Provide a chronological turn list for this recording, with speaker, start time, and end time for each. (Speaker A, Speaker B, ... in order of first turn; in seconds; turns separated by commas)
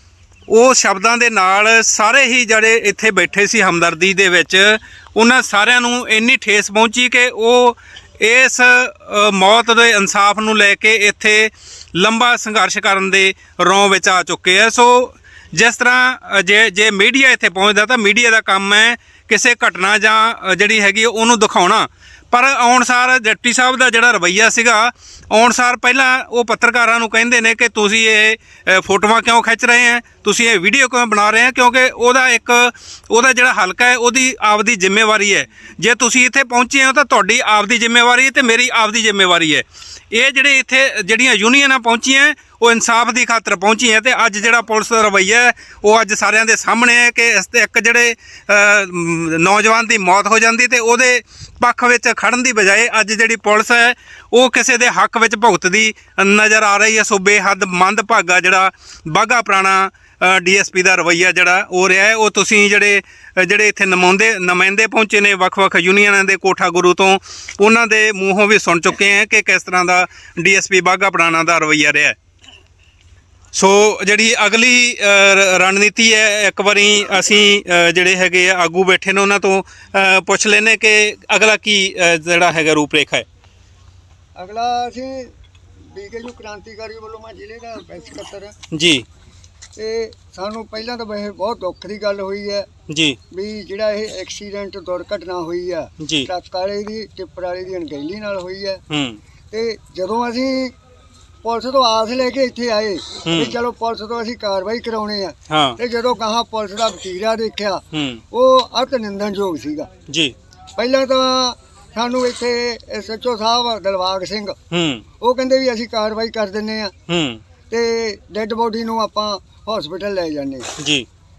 Speaker A: 0.5-72.2, Speaker A: 73.5-83.3, Speaker B: 84.3-85.3, Speaker B: 85.9-88.5, Speaker A: 88.7-89.1, Speaker B: 89.8-92.7, Speaker A: 92.9-93.2, Speaker B: 93.3-98.8, Speaker A: 96.0-96.3, Speaker A: 98.9-99.2, Speaker B: 99.5-100.7, Speaker B: 101.4-109.9, Speaker A: 103.2-103.5, Speaker A: 105.5-105.8, Speaker A: 107.9-108.2, Speaker A: 110.1-110.3, Speaker B: 110.8-114.6, Speaker A: 114.7-115.0, Speaker B: 115.2-116.9, Speaker A: 117.1-117.4, Speaker B: 117.7-120.7, Speaker A: 120.8-121.1